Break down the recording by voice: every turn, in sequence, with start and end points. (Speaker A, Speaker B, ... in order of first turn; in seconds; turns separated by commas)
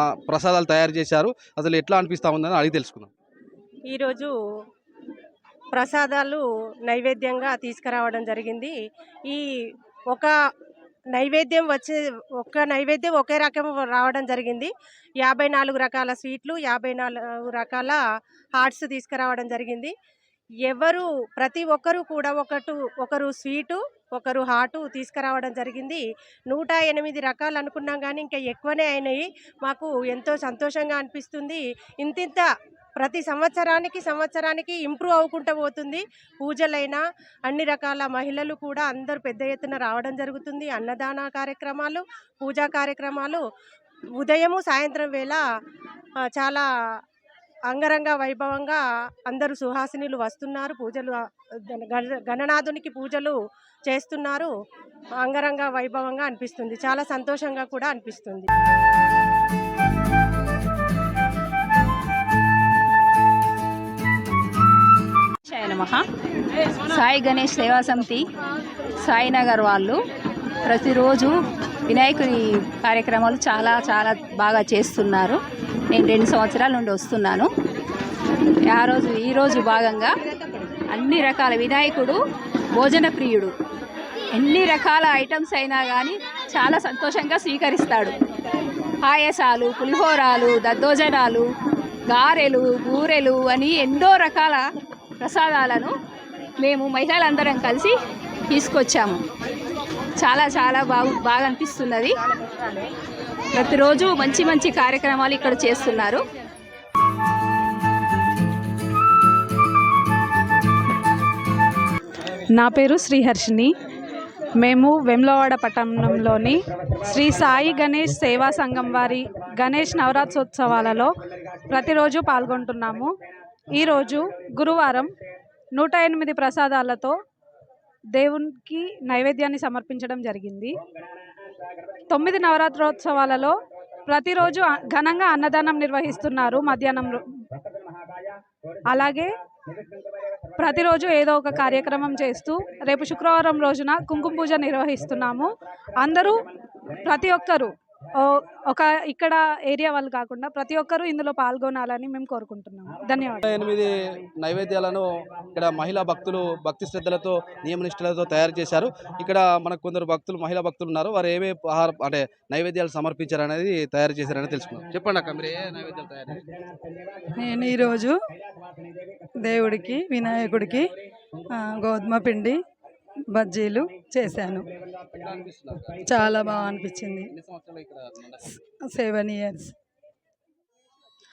Speaker A: 0.2-3.1, Speaker B: 3.9-4.3, Speaker B: 5.7-8.8, Speaker B: 11.1-14.7, Speaker B: 15.2-18.0, Speaker B: 18.6-19.9, Speaker B: 20.7-32.5, Speaker B: 33.0-43.4, Speaker B: 44.2-45.4, Speaker B: 46.4-46.7, Speaker B: 47.7-51.2, Speaker B: 51.7-54.5, Speaker B: 55.2-58.5, Speaker C: 65.5-66.0, Speaker C: 66.9-68.2, Speaker C: 69.0-70.0, Speaker C: 70.7-71.3, Speaker C: 71.9-75.4, Speaker C: 75.9-77.5, Speaker C: 78.7-80.1, Speaker C: 80.9-82.2, Speaker C: 82.8-83.5, Speaker C: 84.4-88.2, Speaker C: 89.0-91.5, Speaker C: 92.1-94.6, Speaker C: 95.2-95.9, Speaker C: 96.6-97.9, Speaker C: 98.5-99.2, Speaker C: 100.2-102.2, Speaker C: 103.5-106.2, Speaker D: 112.5-113.7, Speaker D: 114.6-121.1, Speaker D: 121.7-123.1, Speaker D: 123.7-125.1, Speaker D: 125.8-127.2, Speaker D: 128.2-130.8, Speaker D: 132.1-133.6, Speaker D: 134.1-137.2, Speaker D: 138.9-139.3, Speaker D: 140.6-146.4, Speaker D: 147.0-153.4, Speaker A: 153.5-166.5, Speaker E: 167.4-168.2, Speaker E: 169.4-170.9, Speaker E: 171.5-172.6, Speaker E: 173.3-174.7, Speaker A: 175.2-176.3, Speaker E: 176.0-177.3, Speaker A: 177.3-178.4, Speaker E: 178.9-179.7